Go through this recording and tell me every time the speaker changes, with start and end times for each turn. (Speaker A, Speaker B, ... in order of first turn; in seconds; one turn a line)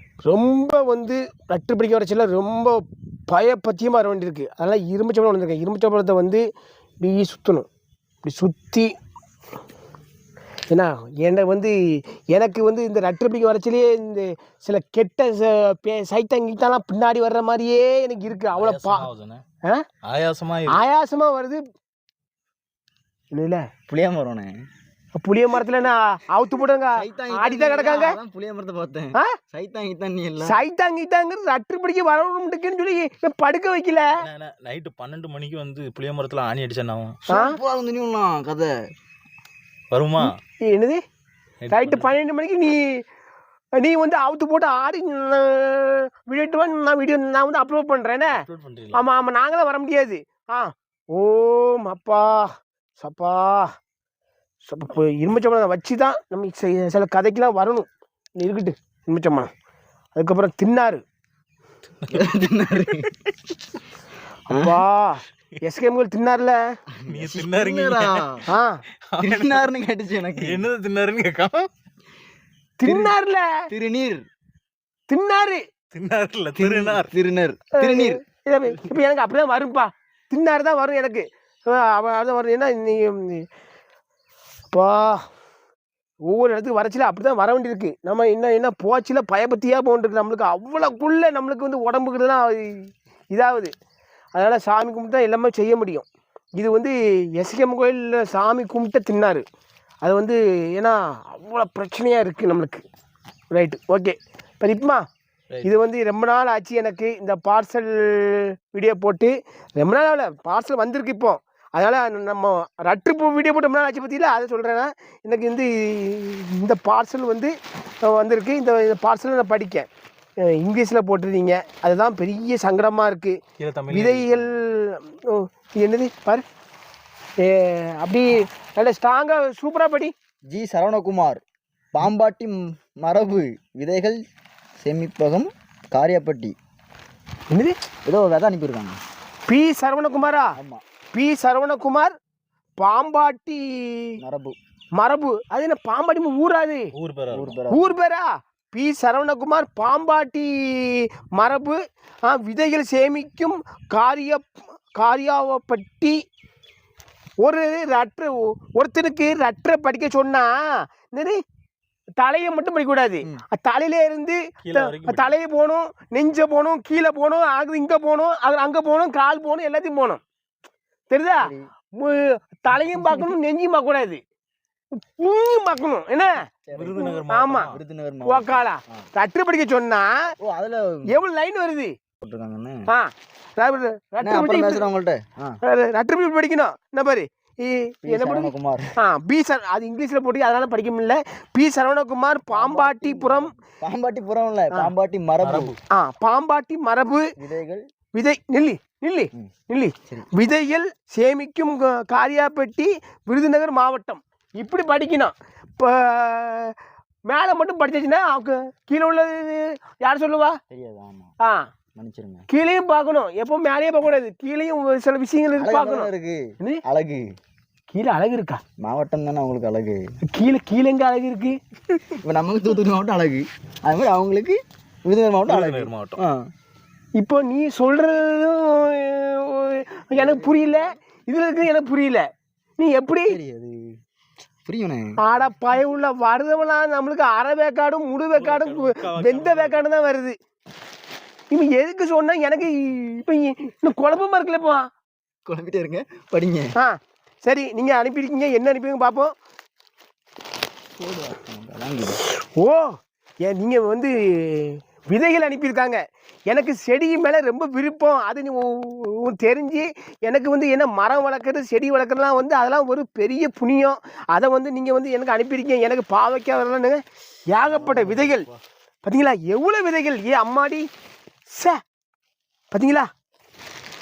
Speaker A: 0.2-6.4
Speaker A: 7.0-7.7
Speaker A: 8.2-8.9
Speaker A: 10.7-11.8
Speaker A: 12.3-19.1
Speaker B: 18.5-19.4
Speaker B: 20.0-20.8
Speaker A: 20.7-21.6
Speaker A: 23.3-23.6
Speaker C: 23.9-24.6
Speaker A: 25.1-28.2
Speaker C: 27.0-30.6
Speaker A: 30.4-34.1
Speaker B: 34.2-37.2
Speaker C: 37.3-38.7
Speaker A: 37.3-37.6
Speaker B: 39.9-40.3
Speaker A: 40.6-41.0
Speaker B: 41.6-42.1
Speaker A: 41.7-43.0
Speaker A: 43.8-48.4
Speaker B: 48.3-49.0
Speaker A: 48.9-53.7
Speaker A: 54.6-57.9
Speaker A: 58.4-59.5
Speaker A: 60.1-61.0
Speaker C: 62.1-63.5
Speaker A: 64.5-66.6
Speaker C: 64.5-64.8
Speaker C: 67.0-68.4
Speaker B: 67.1-68.3
Speaker A: 68.5-68.8
Speaker B: 69.1-69.7
Speaker C: 69.2-70.6
Speaker B: 70.4-71.7
Speaker A: 72.8-73.7
Speaker C: 72.8-73.1
Speaker C: 73.7-74.2
Speaker A: 75.1-75.6
Speaker B: 75.9-77.1
Speaker C: 76.6-78.2
Speaker A: 77.8-83.5
Speaker A: 84.7-85.2
Speaker A: 86.2-93.7
Speaker A: 94.3-99.4
Speaker A: 100.0-102.8
Speaker A: 103.5-105.0
Speaker A: 105.6-119.9
Speaker A: 120.4-123.4
Speaker B: 123.6-124.4
Speaker A: 123.9-126.4
Speaker A: 127.4-130.1
Speaker C: 130.5-131.4
Speaker C: 131.9-134.2
Speaker C: 134.8-136.5
Speaker C: 138.0-139.0
Speaker A: 139.5-140.5
Speaker C: 140.6-140.8
Speaker A: 141.1-142.1
Speaker A: 142.8-144.2
Speaker C: 144.2-144.6
Speaker A: 145.0-146.9
Speaker B: 146.9-147.6
Speaker C: 147.3-148.0
Speaker A: 147.7-156.2
Speaker A: 157.4-160.6
Speaker A: 161.1-161.4
Speaker A: 162.2-170.2
Speaker B: 164.6-165.3
Speaker A: 171.1-174.2
Speaker C: 171.4-171.7
Speaker C: 172.7-173.3
Speaker A: 174.9-176.4
Speaker C: 176.7-177.2
Speaker B: 176.7-177.8
Speaker A: 177.0-180.3
Speaker C: 177.7-178.6
Speaker C: 180.4-181.1
Speaker A: 181.1-181.9
Speaker C: 182.2-182.8
Speaker A: 182.9-184.8
Speaker C: 184.2-185.6
Speaker A: 185.6-193.5
Speaker C: 188.1-188.9
Speaker C: 192.5-195.7
Speaker B: 195.4-195.8
Speaker A: 195.9-197.3
Speaker C: 197.4-197.8
Speaker A: 198.2-206.8
Speaker A: 207.3-210.6
Speaker C: 210.7-211.3
Speaker C: 211.9-212.4
Speaker A: 212.5-216.8
Speaker C: 215.5-217.2
Speaker A: 217.9-218.6
Speaker C: 218.8-220.0
Speaker A: 220.3-221.6
Speaker C: 222.1-226.5
Speaker B: 225.4-226.2
Speaker A: 227.2-232.3
Speaker C: 230.1-230.9
Speaker A: 232.8-233.4
Speaker C: 233.3-233.9
Speaker C: 234.6-235.1
Speaker A: 235.2-240.3
Speaker B: 238.3-239.8
Speaker A: 241.5-244.9
Speaker C: 245.4-246.7
Speaker A: 246.8-249.3
Speaker C: 251.0-252.2
Speaker A: 252.6-268.5
Speaker B: 267.7-268.6
Speaker A: 269.0-270.9
Speaker A: 271.5-271.8
Speaker A: 272.7-273.1